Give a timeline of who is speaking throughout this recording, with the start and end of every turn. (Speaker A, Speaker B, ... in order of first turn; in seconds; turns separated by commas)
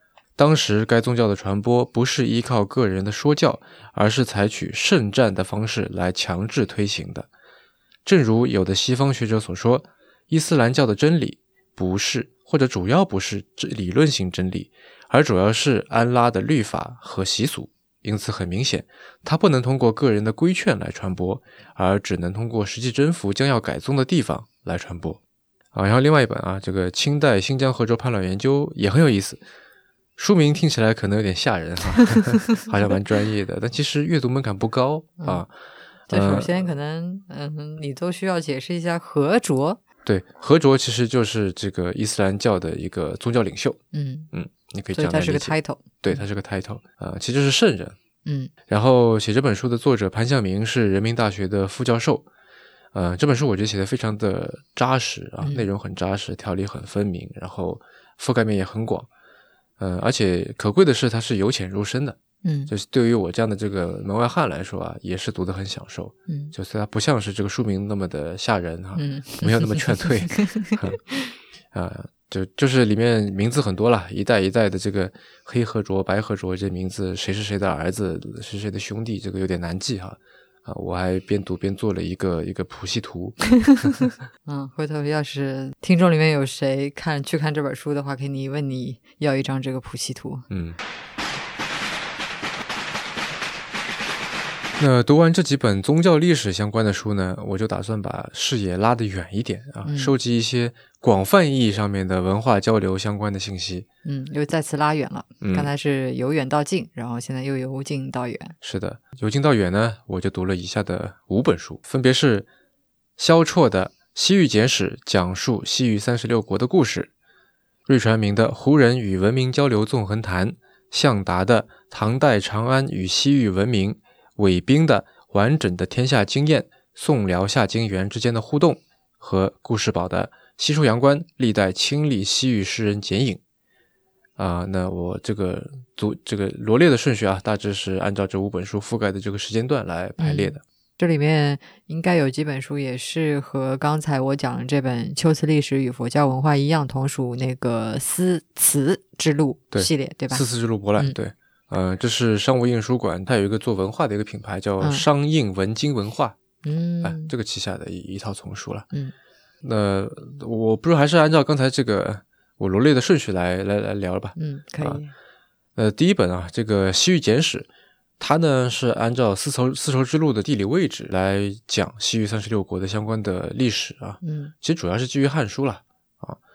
Speaker A: 0.4-7.3, Speaker A: 8.0-25.2, Speaker A: 25.7-29.4, Speaker A: 30.2-35.5, Speaker B: 32.0-32.7, Speaker A: 36.1-36.5, Speaker B: 36.1-39.8, Speaker A: 40.0-43.8, Speaker B: 43.9-44.3, Speaker A: 44.3-48.0, Speaker B: 44.9-46.2, Speaker B: 48.2-48.5, Speaker A: 48.7-52.3, Speaker A: 52.9-59.1, Speaker B: 55.4-55.7, Speaker A: 59.8-62.2, Speaker B: 62.4-62.7, Speaker A: 62.7-71.0, Speaker B: 66.3-66.5, Speaker B: 69.0-71.3, Speaker A: 71.7-83.9, Speaker B: 83.7-90.5, Speaker A: 90.5-90.8, Speaker A: 94.8-103.9, Speaker B: 99.8-100.1, Speaker B: 104.0-108.5, Speaker A: 105.4-105.7, Speaker A: 108.6-112.5, Speaker A: 113.2-117.1, Speaker A: 117.9-133.4, Speaker A: 134.4-140.6, Speaker B: 140.2-150.4, Speaker A: 149.7-156.4, Speaker B: 156.6-157.3, Speaker A: 157.0-158.9, Speaker A: 159.6-165.0, Speaker B: 164.3-165.1, Speaker A: 165.8-167.7, Speaker A: 168.2-176.4, Speaker B: 174.2-174.5